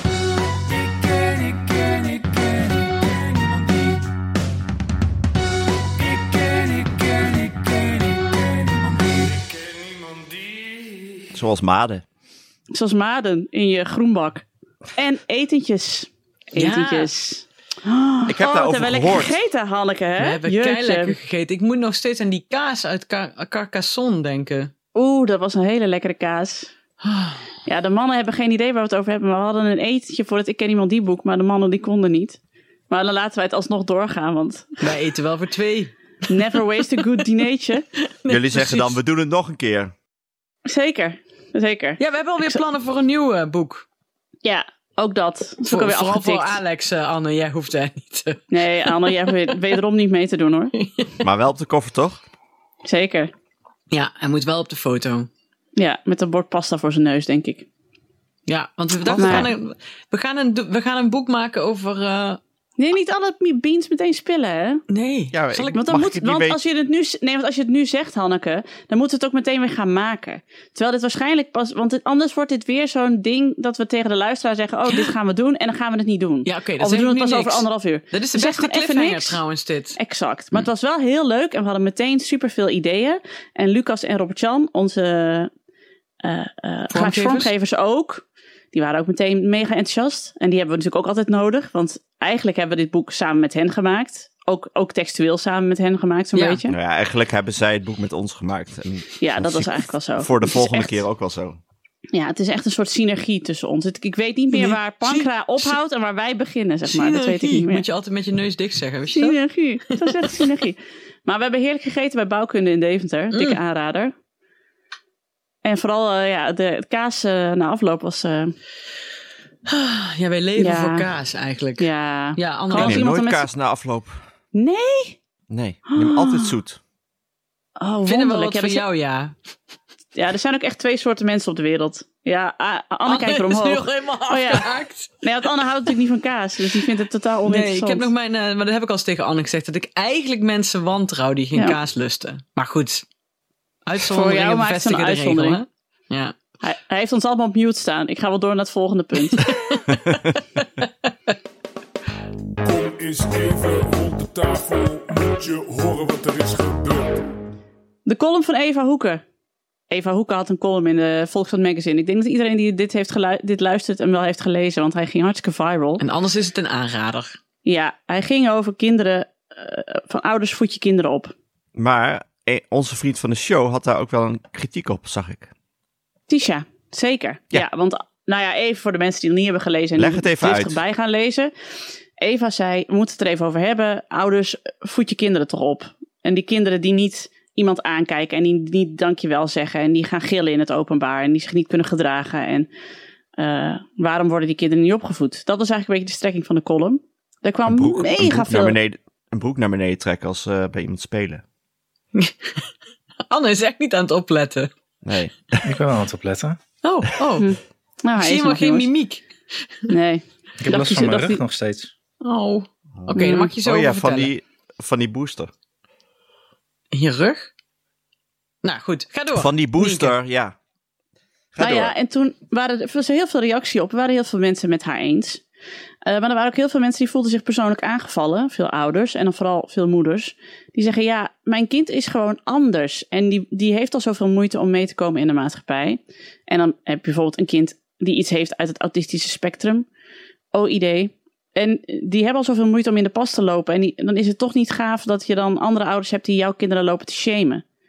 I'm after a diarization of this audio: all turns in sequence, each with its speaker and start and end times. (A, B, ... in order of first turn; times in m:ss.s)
0:00.6-0:04.1 A
0:06.0-0:11.2 A
0:11.3-0:12.0 B
0:12.7-0:14.4 C
0:15.0-0:21.2 C
0:16.5-0:17.1 D
0:18.2-0:19.4 B
0:20.2-0:24.7 D
0:24.9-0:26.7 C
0:27.0-0:27.4 D
0:27.6-0:32.4 C
0:32.9-0:34.9 C
0:34.8-0:37.2 D
0:36.3-0:37.8 C
0:38.0-0:39.0 D
0:38.3-0:39.9 B
0:40.6-0:42.6 C
0:42.0-0:43.8 D
0:44.4-0:46.6 C
0:45.7-0:49.3 D
0:48.5-0:50.7 C
0:50.8-0:51.2 D
0:51.2-0:52.2 B
0:52.8-0:53.3 C
0:53.9-0:55.3 D
0:55.8-0:57.6 C
0:58.5-1:02.4 D
0:59.1-0:59.5 B
0:59.1-0:59.5 C
1:02.8-1:04.8 C
1:04.9-1:05.8 D
1:05.3-1:06.6 B
1:05.7-1:19.4 C
1:16.4-1:20.0 D
1:20.0-1:25.5 C
1:26.2-1:36.8 C
1:26.9-1:27.5 D
1:36.3-1:36.6 D
1:36.7-1:41.6 B
1:39.2-1:41.0 C
1:42.1-1:47.8 C
1:44.5-1:45.8 D
1:46.8-1:49.4 D
1:49.1-1:54.1 C
1:50.0-1:50.5 D
1:53.3-1:53.6 D
1:55.6-1:58.5 C
1:59.6-2:03.0 D
2:00.6-2:01.1 C
2:01.8-2:03.4 C
2:02.7-2:04.2 B
2:04.5-2:05.2 C
2:05.5-2:06.8 B
2:05.9-2:06.5 C
2:07.8-2:08.8 C
2:08.0-2:09.3 D
2:10.1-2:18.1 C
2:13.0-2:15.1 D
2:17.4-2:23.0 D
2:23.8-2:26.3 D
2:24.1-2:25.6 C
2:26.6-2:29.6 C
2:29.2-2:29.9 D
2:32.6-2:37.3 A
2:38.0-2:39.2 C
2:39.9-2:46.0 C
2:46.0-2:47.3 D
2:47.6-2:51.3 C
2:51.8-2:55.5 B
2:56.3-3:01.5 C
3:00.0-3:00.8 B
3:02.2-3:12.7 C
3:13.4-3:18.8 C
3:17.7-3:21.4 B
3:22.1-3:22.6 D
3:23.3-3:24.7 D
3:25.0-3:25.7 B
3:25.6-3:26.6 E
3:26.8-3:27.5 D
3:27.4-3:28.9 C
3:28.2-3:29.9 D
3:29.9-3:31.4 C
3:30.6-3:31.9 E
3:32.2-3:34.3 D
3:33.0-3:35.5 B
3:33.1-3:33.5 C
3:36.9-3:37.5 D
3:38.6-3:40.2 D
3:39.3-3:40.5 B
3:41.5-3:41.9 B
3:41.6-3:45.4 C
3:46.0-3:59.8 C
4:00.5-4:07.6 C